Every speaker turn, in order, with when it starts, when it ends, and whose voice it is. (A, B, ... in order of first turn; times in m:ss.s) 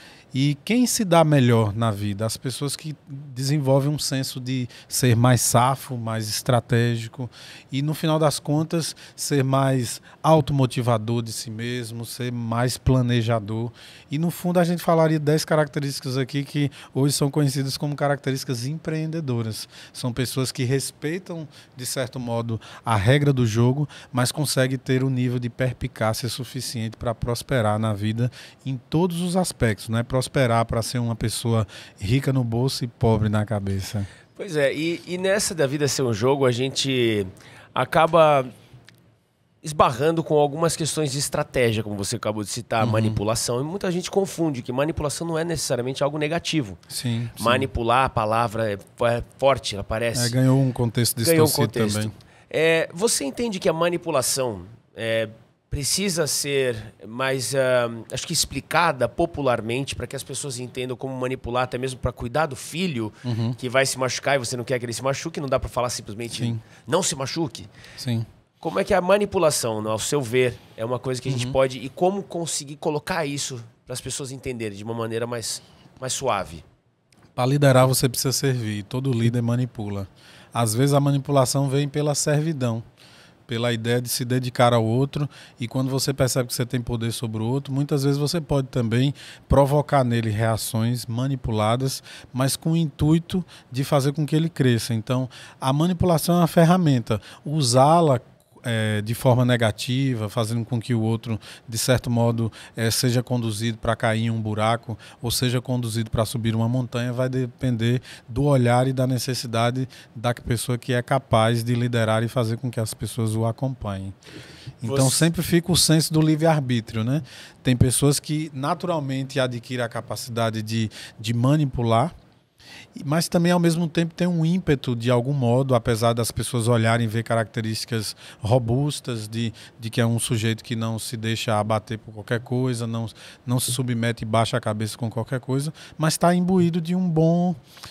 0:00.3-0:34.1 A
0:34.4-0:38.5 B
0:39.6-0:46.8 B
0:42.8-0:43.2 A
0:46.9-0:47.7 A
0:47.4-0:50.4 B
0:50.1-0:52.1 A
0:51.2-1:07.7 B
1:03.2-1:03.6 A
1:06.3-1:06.6 A
1:08.0-1:08.3 A
1:08.6-1:16.6 B
1:11.3-1:11.6 A
1:17.4-1:22.8 A
1:23.5-1:54.2 A
1:54.8-2:02.1 A
1:54.8-1:55.3 B
2:03.0-2:17.6 A